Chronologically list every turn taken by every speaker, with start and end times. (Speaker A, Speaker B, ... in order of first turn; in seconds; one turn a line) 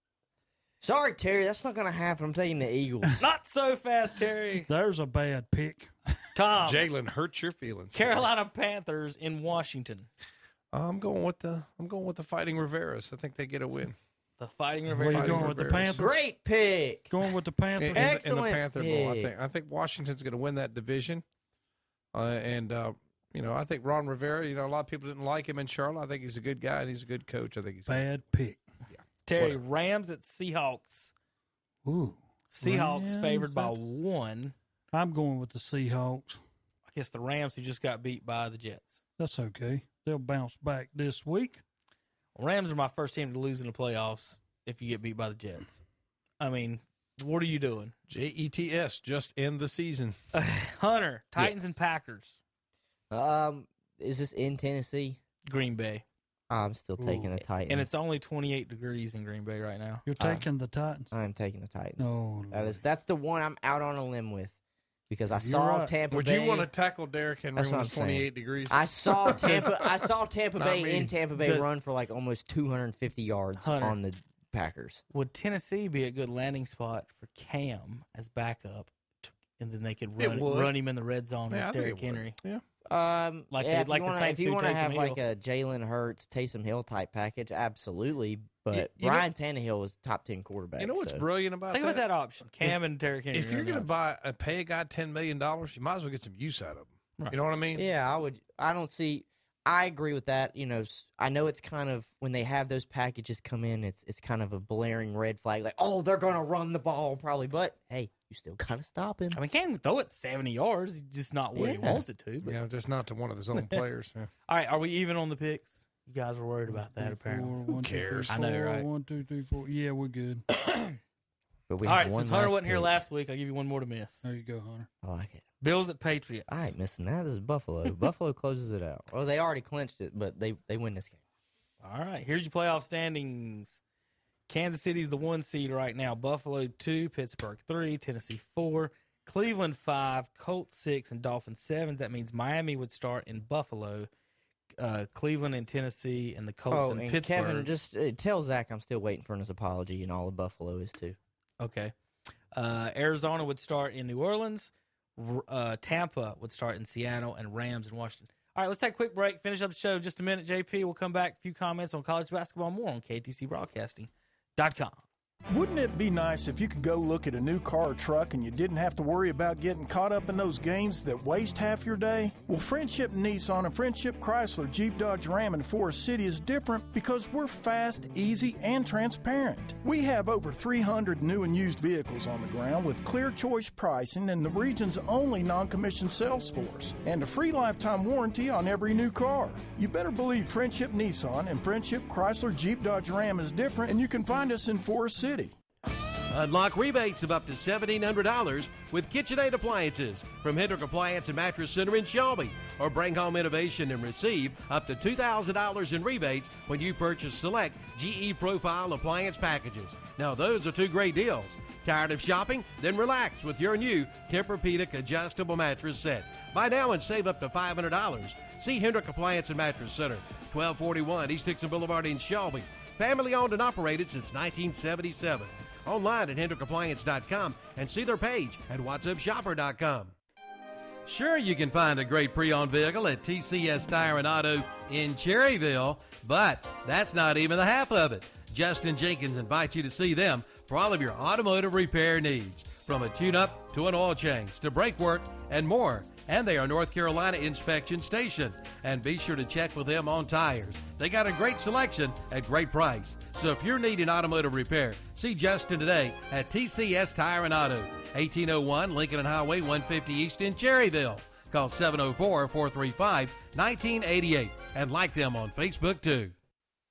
Speaker A: 0.8-3.2
Speaker B: 3.2-4.7
Speaker C: 4.7-5.9
Speaker B: 6.3-6.9
Speaker D: 6.6-8.3
Speaker B: 7.9-10.1
Speaker D: 10.7-14.0
Speaker B: 14.4-15.7
Speaker C: 14.9-16.1
Speaker D: 15.1-16.1
Speaker A: 15.9-17.1
Speaker C: 17.1-18.1
Speaker D: 17.8-21.2
Speaker A: 17.9-19.3
Speaker D: 22.1-28.2
Speaker C: 27.9-28.6
Speaker D: 28.9-29.6
Speaker B: 29.2-31.1
Speaker C: 31.9-33.9
Speaker B: 32.5-34.5
Speaker C: 34.9-36.4
Speaker B: 36.9-39.0
Speaker C: 39.2-41.6
Speaker B: 42.4-45.8
Speaker B: 46.4-48.0
Speaker D: 48.1-50.2
Speaker B: 50.3-52.4
Speaker A: 53.1-55.2
Speaker B: 55.5-56.0
Speaker A: 56.5-58.0
Speaker B: 57.7-60.0
Speaker C: 60.1-61.1
Speaker A: 60.2-60.5
Speaker A: 61.1-64.6
Speaker C: 62.0-62.8
Speaker A: 65.1-66.7
Speaker C: 65.4-65.9
Speaker D: 66.1-70.0
Speaker A: 67.5-75.0
Speaker D: 70.6-71.1
Speaker B: 71.4-71.7
Speaker B: 73.6-74.0
Speaker B: 75.1-82.4
Speaker D: 80.2-80.8
Speaker D: 81.5-82.6
Speaker A: 82.9-91.2
Speaker B: 83.5-85.2
Speaker D: 88.7-89.3
Speaker D: 90.8-92.0
Speaker B: 91.7-93.9
Speaker D: 93.3-97.9
Speaker A: 97.8-109.4
Speaker B: 109.3-112.6
Speaker A: 111.6-112.0
Speaker D: 112.4-114.3
Speaker B: 113.5-113.8
Speaker B: 114.5-117.6
Speaker C: 116.7-120.4
Speaker D: 117.7-118.3
Speaker B: 118.3-118.9
Speaker A: 121.7-123.0
Speaker B: 121.8-124.2
Speaker C: 124.2-124.9
Speaker A: 125.0-125.4
Speaker B: 125.6-126.7
Speaker A: 126.5-131.2
Speaker B: 131.8-133.8
Speaker B: 134.5-144.1
Speaker B: 144.8-147.7
Speaker A: 146.7-151.2
Speaker B: 151.6-151.9
Speaker B: 152.5-165.0
Speaker E: 165.5-195.5
Speaker F: 196.3-230.1
Speaker F: 231.1-266.3